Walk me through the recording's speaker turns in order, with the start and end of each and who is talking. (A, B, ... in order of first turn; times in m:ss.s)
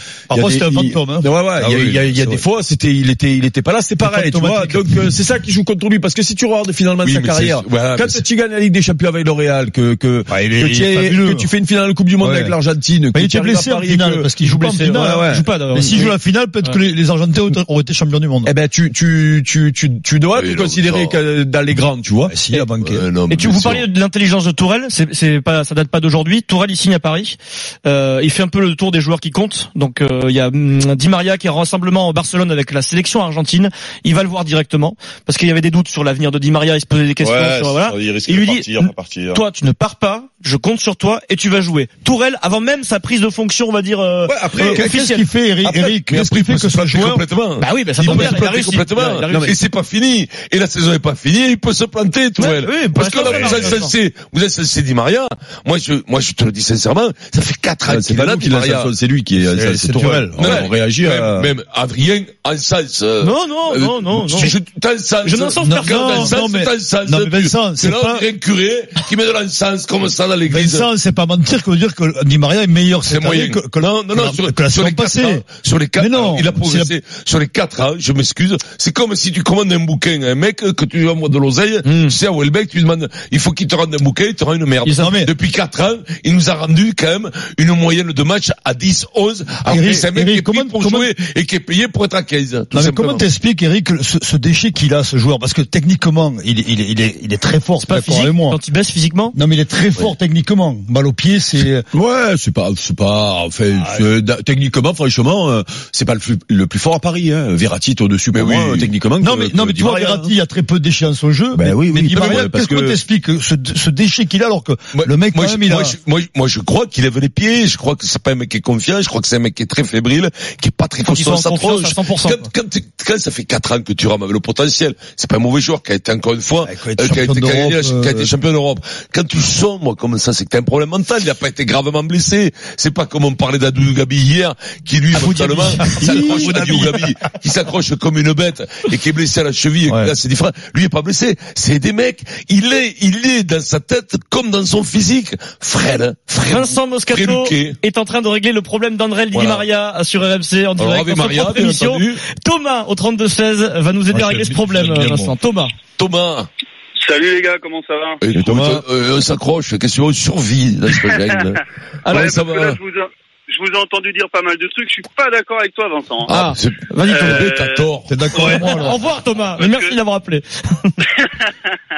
0:00.3-0:14.3 A
0:00.3-0:02.4 B
0:04.0-0:05.1 B
0:07.0-0:08.2 C
0:10.3-0:11.5 B
0:12.2-0:12.5 B
0:13.1-0:18.5 B
0:14.4-0:16.8 D
0:14.9-0:15.5 A
0:18.4-0:22.4 A
0:20.3-0:21.2 C
0:22.3-0:23.0 B
0:22.8-0:23.8 C
0:23.3-0:45.3 D
0:37.2-0:39.4 A
0:44.3-0:44.8 A
0:44.6-0:44.8 C
0:44.7-0:47.2 B
0:45.6-0:58.9 C
0:47.6-0:49.5 D
0:48.0-0:48.4 B
0:49.1-0:49.6 A
0:52.4-0:53.9 D
0:53.3-0:53.7 B
0:57.9-1:01.5 A
0:59.4-1:00.5 B
1:00.4-1:10.9 C
1:03.2-1:04.6 D
1:05.2-1:06.4 D
1:05.6-1:08.3 B
1:10.5-1:15.4 B
1:13.1-1:33.2 C
1:16.0-1:16.9 B
1:21.8-1:22.1 D
1:24.8-1:25.3 B
1:29.6-1:31.1 B
1:32.7-1:38.6 B
1:37.8-1:39.3 D
1:39.3-1:41.8 B
1:41.9-1:50.3 A
1:43.7-1:44.1 B
1:48.3-1:48.9 C
1:49.2-1:56.0 B
1:51.5-1:53.0 A
1:54.9-2:27.8 C
2:01.0-2:02.5 D
2:06.6-2:08.3 B
2:15.2-2:16.8 D
2:15.8-2:17.0 B
2:19.9-2:20.1 B
2:26.5-2:35.7 D
2:29.3-2:29.6 C
2:30.8-2:32.2 C
2:34.1-2:35.4 B
2:36.0-2:36.5 C
2:37.0-2:38.2 E
2:38.2-2:42.8 C
2:38.3-2:38.8 B
2:42.0-2:42.3 D
2:42.1-2:46.3 E
2:46.2-2:48.2 C
2:46.3-2:47.5 D
2:47.0-2:50.0 E
2:48.0-2:49.0 B
2:48.3-2:51.0 D
2:51.1-2:51.8 E